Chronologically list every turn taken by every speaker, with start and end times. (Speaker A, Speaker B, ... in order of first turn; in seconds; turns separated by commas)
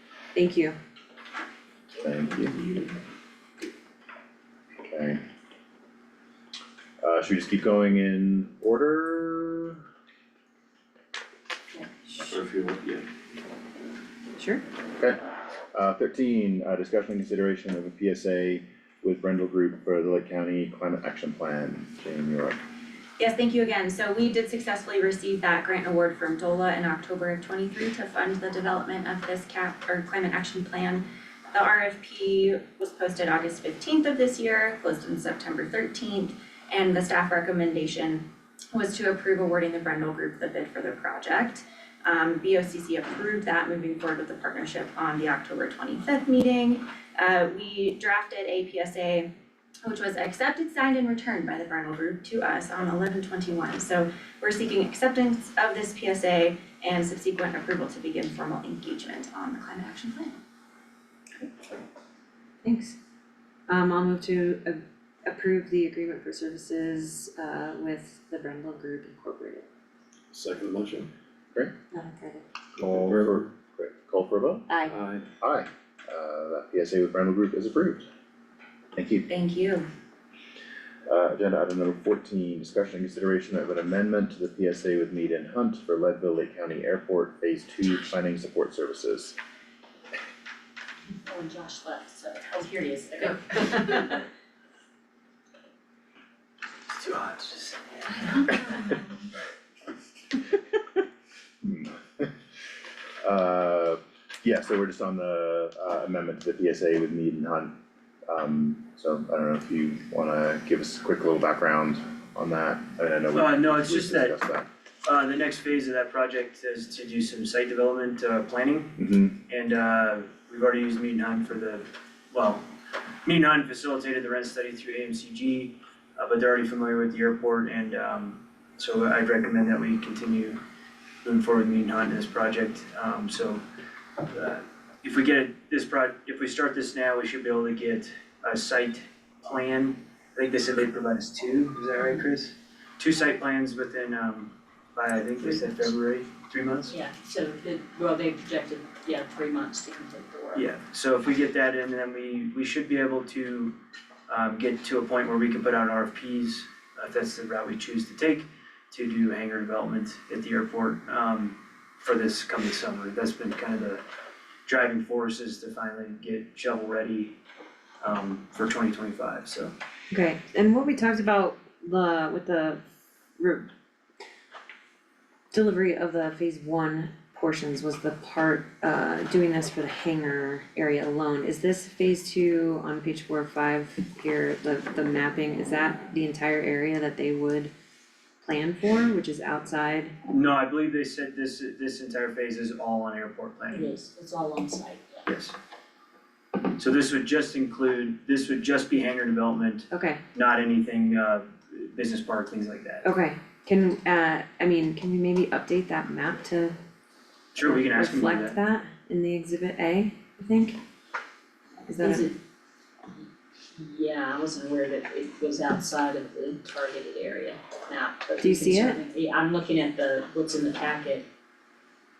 Speaker A: 0.3-0.8, Speaker B: 2.0-2.6, Speaker B: 4.8-5.2, Speaker B: 7.0-9.8, Speaker C: 12.2-13.1, Speaker A: 14.4-14.6, Speaker B: 15.7-22.6, Speaker D: 23.2-49.3, Speaker D: 49.8-60.4, Speaker A: 62.6-63.0, Speaker A: 63.7-69.7, Speaker C: 70.3-71.1, Speaker A: 71.9-72.4, Speaker C: 72.8-73.5, Speaker B: 72.8-74.7, Speaker A: 74.7-75.0, Speaker C: 74.9-75.2, Speaker B: 75.4-78.1, Speaker B: 79.0-79.3, Speaker D: 79.3-79.9, Speaker B: 81.1-89.4, Speaker E: 91.3-94.3, Speaker F: 96.9-98.1, Speaker E: 98.1-99.2, Speaker B: 101.6-102.3, Speaker B: 103.2-114.7, Speaker F: 113.3-114.4, Speaker F: 115.0-119.0, Speaker B: 119.0-119.4, Speaker F: 119.5-122.6, Speaker F: 123.2-130.6, Speaker F: 131.2-133.6, Speaker F: 134.3-146.9, Speaker E: 146.9-150.7, Speaker F: 150.5-153.8, Speaker F: 154.3-164.0, Speaker F: 164.7-167.4, Speaker F: 168.0-169.7, Speaker A: 170.1-172.8, Speaker A: 173.4-173.7, Speaker A: 175.5-187.7, Speaker A: 188.4-190.1, Speaker F: 190.3-193.9, Speaker E: 193.7-195.3, Speaker F: 195.3-195.6, Speaker F: 196.8-203.0, Speaker A: 199.9-200.2, Speaker A: 203.0-206.8, Speaker F: 207.5-208.6, Speaker A: 207.6-210.8, Speaker A: 211.9-212.3, Speaker E: 211.9-212.4, Speaker E: 213.8-221.3, Speaker A: 218.4-219.0